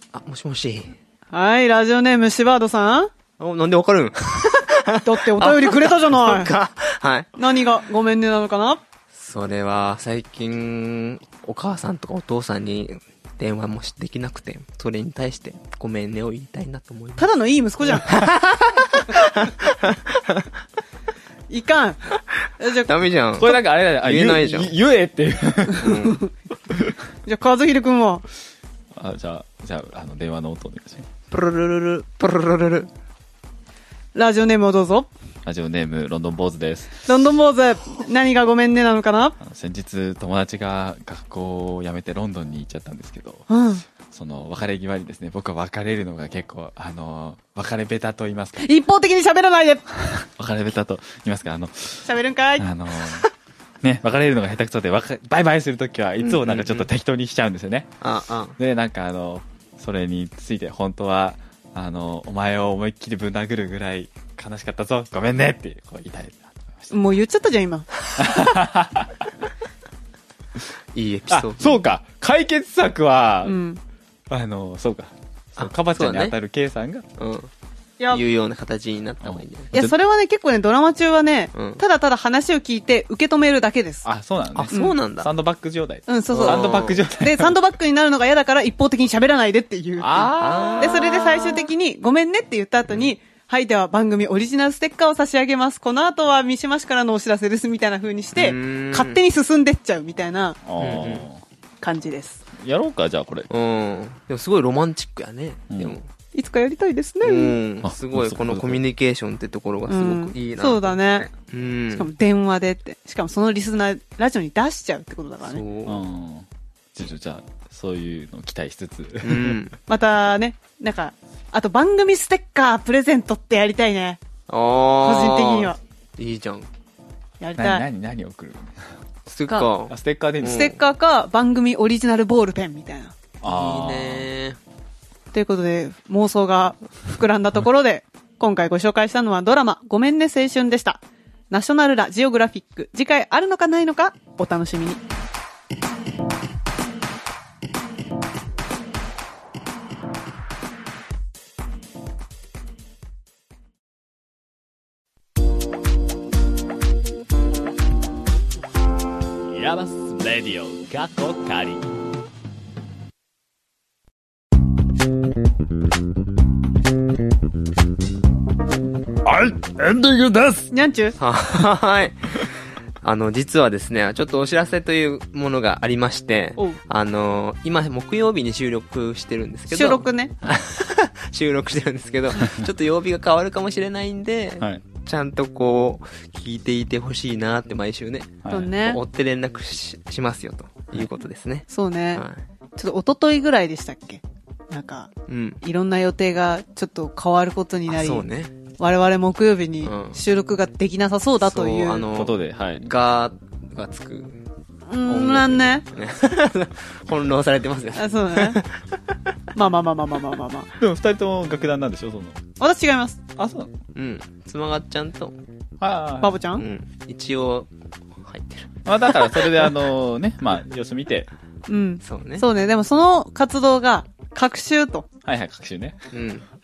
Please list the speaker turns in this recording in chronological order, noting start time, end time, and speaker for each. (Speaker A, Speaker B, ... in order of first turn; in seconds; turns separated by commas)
Speaker A: 0.1-0.9, Speaker B: 1.3-3.1, Speaker A: 3.4-7.4, Speaker B: 5.0-6.5, Speaker B: 7.4-8.8, Speaker A: 9.1-17.3, Speaker B: 17.2-18.2, Speaker A: 17.9-20.4, Speaker B: 21.5-22.0, Speaker B: 22.6-22.9, Speaker A: 22.9-24.7, Speaker C: 23.4-26.1, Speaker A: 25.8-26.2, Speaker B: 25.9-26.3, Speaker B: 27.3-28.2, Speaker C: 28.9-31.1, Speaker A: 31.3-32.9, Speaker B: 34.1-35.1, Speaker C: 35.5-37.0, Speaker B: 37.1-39.4, Speaker C: 39.4-43.5, Speaker B: 43.5-43.8, Speaker C: 44.1-48.6, Speaker B: 48.6-49.9, Speaker C: 50.1-52.1, Speaker B: 52.0-52.7, Speaker C: 52.6-53.3, Speaker C: 53.8-57.9, Speaker A: 56.2-56.9, Speaker A: 58.0-58.6, Speaker C: 58.6-66.9, Speaker B: 66.9-67.9, Speaker C: 68.2-69.3, Speaker A: 70.9-71.8, Speaker C: 71.3-73.6, Speaker B: 73.5-73.8, Speaker C: 74.3-77.0, Speaker A: 75.6-76.3, Speaker A: 77.2-77.5, Speaker A: 78.1-79.7, Speaker C: 79.2-80.0, Speaker B: 79.7-84.1, Speaker A: 81.5-81.8, Speaker C: 84.0-87.5, Speaker A: 84.5-85.3, Speaker B: 84.7-85.0, Speaker B: 86.1-100.6, Speaker A: 86.3-87.1, Speaker C: 90.0-91.0, Speaker A: 90.4-91.7, Speaker A: 98.4-99.2, Speaker C: 100.7-101.4, Speaker A: 100.8-101.3, Speaker B: 101.8-102.4, Speaker C: 102.6-103.5, Speaker A: 103.5-106.1, Speaker C: 105.7-106.0, Speaker B: 106.3-107.6, Speaker A: 107.2-112.1, Speaker C: 107.8-108.8, Speaker B: 109.9-111.3, Speaker B: 111.9-115.6, Speaker A: 115.4-116.0, Speaker C: 115.9-119.6, Speaker A: 119.2-119.8, Speaker B: 119.9-124.2, Speaker A: 124.5-126.7, Speaker B: 125.0-125.8, Speaker B: 127.4-127.8, Speaker C: 127.6-128.9, Speaker A: 129.3-130.8, Speaker C: 129.9-130.7, Speaker B: 130.4-133.1, Speaker C: 133.4-134.3, Speaker A: 133.4-134.6, Speaker B: 135.3-141.0, Speaker B: 141.5-145.0, Speaker C: 159.5-161.8, Speaker C: 169.2-170.7, Speaker B: 170.7-171.2, Speaker A: 171.2-192.4, Speaker B: 179.7-180.3, Speaker C: 188.4-188.7, Speaker B: 188.5-189.0, Speaker B: 191.7-192.2, Speaker B: 192.8-195.1, Speaker A: 195.3-195.6, Speaker B: 195.6-198.3, Speaker A: 197.9-198.5, Speaker B: 198.8-202.1, Speaker A: 199.8-200.2, Speaker A: 201.4-204.4, Speaker C: 202.1-202.9, Speaker B: 204.9-205.9, Speaker A: 205.1-208.8, Speaker B: 208.0-208.6, Speaker B: 209.6-210.7, Speaker C: 210.8-212.4, Speaker B: 212.6-213.2, Speaker C: 213.4-213.7, Speaker A: 213.9-215.4, Speaker C: 215.8-216.4, Speaker B: 216.2-216.6, Speaker A: 216.6-217.7, Speaker A: 218.2-219.7, Speaker C: 218.9-221.3, Speaker B: 221.7-225.1, Speaker A: 222.0-222.4, Speaker C: 225.2-226.0, Speaker A: 226.1-226.5